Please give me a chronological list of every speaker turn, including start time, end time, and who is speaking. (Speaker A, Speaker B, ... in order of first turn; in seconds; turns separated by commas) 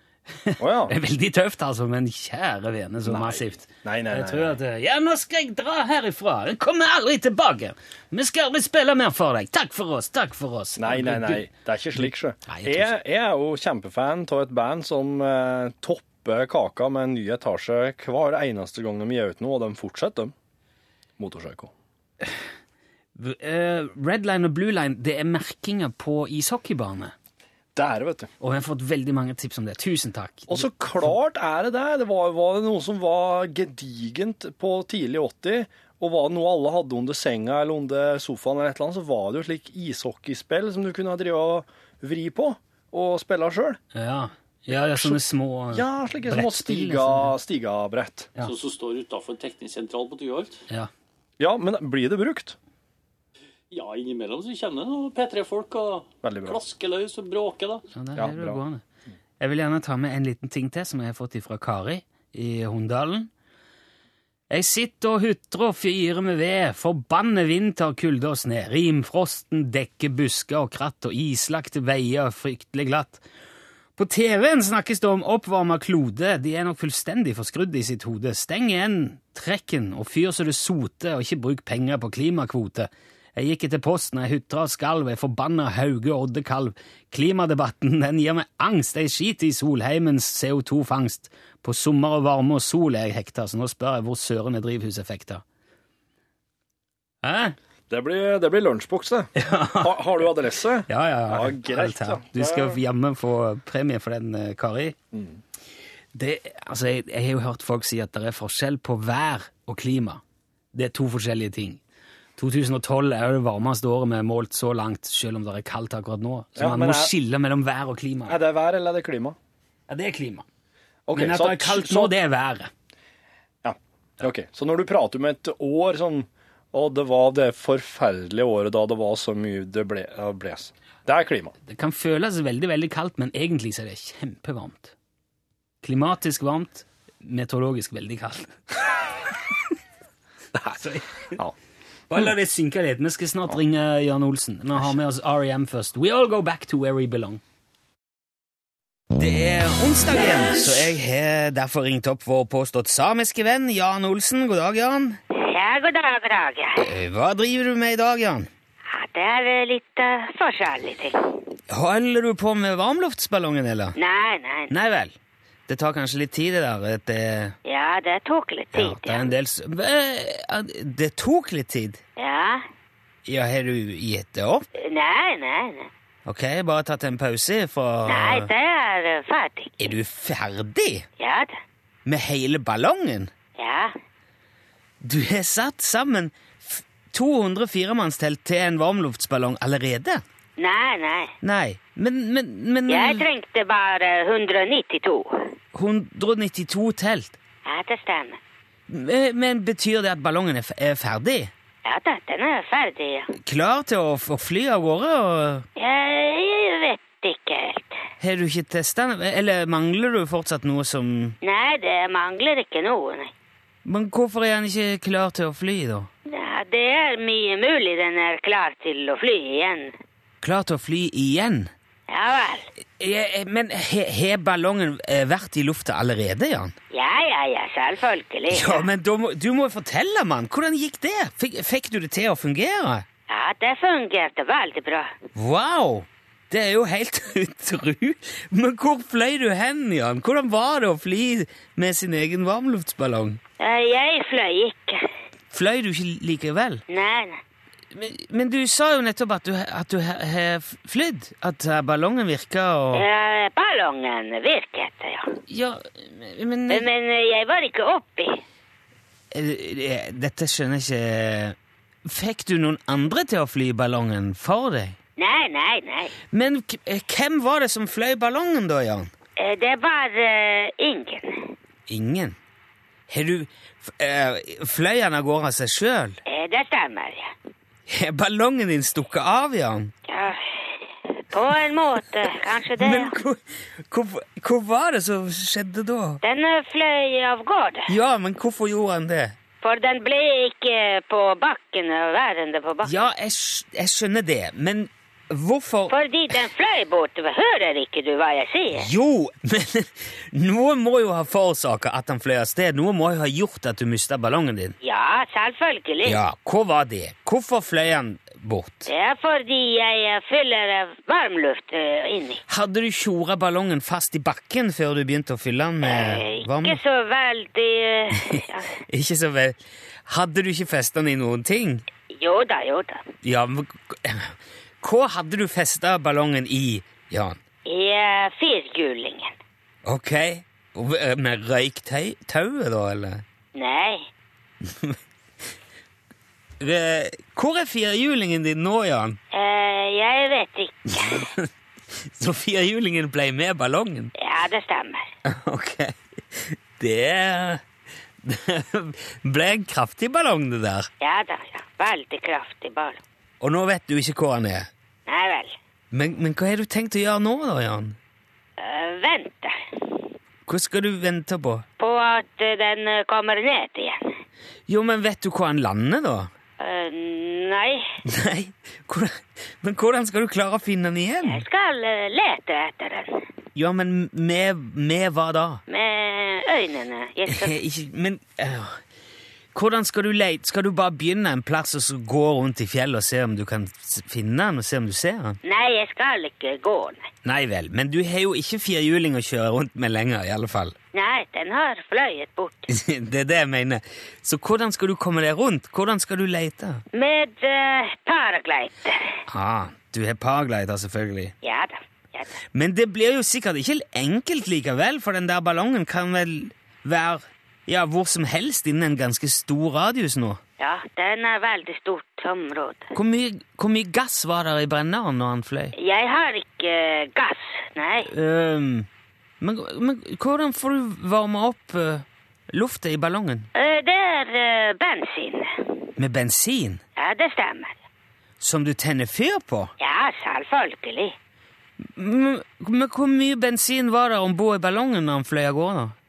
Speaker A: 0.3-12.9, Speaker B: 0.6-0.9, Speaker B: 3.0-4.6, Speaker B: 10.8-20.3, Speaker B: 21.2-21.7, Speaker A: 23.2-27.1, Speaker B: 27.8-28.3, Speaker A: 28.4-31.1, Speaker B: 30.5-43.8, Speaker A: 43.9-47.4, Speaker B: 44.8-48.3, Speaker C: 48.4-50.6, Speaker B: 51.4-52.6, Speaker C: 53.7-57.8, Speaker B: 56.2-56.6, Speaker A: 57.9-58.8, Speaker B: 58.2-58.6, Speaker A: 59.4-63.3, Speaker A: 64.5-73.2, Speaker A: 74.0-95.4, Speaker A: 97.2-97.6, Speaker B: 97.9-102.8, Speaker A: 99.4-100.3, Speaker A: 100.9-105.0, Speaker B: 105.1-105.4, Speaker A: 106.1-110.2, Speaker A: 110.7-111.8, Speaker A: 112.4-118.4, Speaker B: 116.6-117.1, Speaker B: 118.3-119.4, Speaker A: 119.9-120.5, Speaker B: 121.1-122.1, Speaker A: 121.1-122.7, Speaker B: 123.6-131.6, Speaker A: 131.7-134.9, Speaker A: 135.8-138.6, Speaker A: 140.7-141.4, Speaker A: 142.1-147.4, Speaker A: 149.1-155.2, Speaker D: 155.3-156.8, Speaker A: 156.8-158.5, Speaker D: 158.9-161.2, Speaker A: 161.7-164.0, Speaker D: 164.0-164.7, Speaker A: 164.7-165.1, Speaker A: 165.7-167.6, Speaker D: 167.7-169.3, Speaker A: 168.7-172.0, Speaker D: 172.2-172.6, Speaker A: 173.3-174.7, Speaker D: 174.8-175.9, Speaker A: 176.3-178.5, Speaker D: 178.1-179.9, Speaker A: 179.8-181.1, Speaker D: 181.2-181.6, Speaker A: 182.1-183.3, Speaker D: 183.6-183.9, Speaker A: 185.0-190.2, Speaker D: 190.6-191.3, Speaker A: 191.4-193.3, Speaker D: 192.9-195.5, Speaker A: 195.7-197.4, Speaker D: 197.7-198.4, Speaker A: 198.9-201.5, Speaker D: 201.8-203.3, Speaker A: 203.4-205.7, Speaker D: 205.8-208.0, Speaker A: 208.2-211.4, Speaker D: 211.4-213.3, Speaker A: 213.8-216.1, Speaker D: 216.3-219.9, Speaker A: 220.4-221.7, Speaker D: 222.1-222.7, Speaker A: 223.0-226.8, Speaker D: 226.9-228.9, Speaker A: 228.5-233.1, Speaker D: 233.3-235.1, Speaker A: 235.3-243.4, Speaker D: 243.6-245.1, Speaker A: 245.5-246.8, Speaker D: 246.9-247.4, Speaker A: 247.9-253.1, Speaker D: 252.9-255.4, Speaker A: 255.5-256.9, Speaker D: 256.7-258.4, Speaker A: 259.3-265.0, Speaker D: 265.2-266.1, Speaker A: 266.3-269.1, Speaker D: 269.4-271.5, Speaker A: 271.9-272.4, Speaker A: 273.1-276.2, Speaker D: 276.3-277.3, Speaker A: 277.9-279.9, Speaker D: 280.1-283.1, Speaker A: 282.8-286.2, Speaker D: 286.2-287.9, Speaker A: 287.9-289.4, Speaker D: 289.6-293.0, Speaker A: 292.8-295.9, Speaker D: 295.9-298.9, Speaker A: 298.8-304.8, Speaker D: 304.8-306.2, Speaker A: 306.1-308.9, Speaker D: 308.9-312.4, Speaker A: 312.5-316.8, Speaker D: 315.8-318.7, Speaker A: 318.1-321.8, Speaker D: 322.1-323.1, Speaker A: 323.2-327.4, Speaker D: 327.7-329.3, Speaker A: 329.9-333.2, Speaker D: 333.6-334.1, Speaker A: 334.7-335.0, Speaker A: 336.6-339.2, Speaker D: 339.3-341.3, Speaker A: 340.9-341.5, Speaker A: 342.1-344.1, Speaker D: 344.2-345.1, Speaker A: 345.2-347.6, Speaker A: 348.2-350.9, Speaker D: 351.0-353.0, Speaker A: 353.4-354.7, Speaker D: 355.1-355.6, Speaker A: 355.9-358.0, Speaker D: 358.6-360.0, Speaker A: 360.5-361.6, Speaker D: 361.8-364.1, Speaker A: 364.7-366.3, Speaker D: 366.6-367.9, Speaker A: 368.1-371.4, Speaker D: 371.2-373.2, Speaker A: 373.6-375.6, Speaker D: 375.7-377.6, Speaker A: 377.3-378.8, Speaker A: 379.5-385.4, Speaker D: 385.4-387.1, Speaker A: 387.2-390.8, Speaker D: 390.9-392.7, Speaker A: 392.7-396.8, Speaker D: 396.9-399.1, Speaker A: 399.3-401.3, Speaker D: 401.4-402.4, Speaker A: 402.5-410.4, Speaker D: 410.6-412.9, Speaker A: 412.9-415.7, Speaker D: 415.8-418.1, Speaker A: 418.1-418.9, Speaker A: 419.4-423.5, Speaker D: 423.6-425.5, Speaker A: 426.0-426.8, Speaker D: 427.0-427.8, Speaker A: 428.4-429.7, Speaker D: 429.8-431.1, Speaker A: 431.8-436.0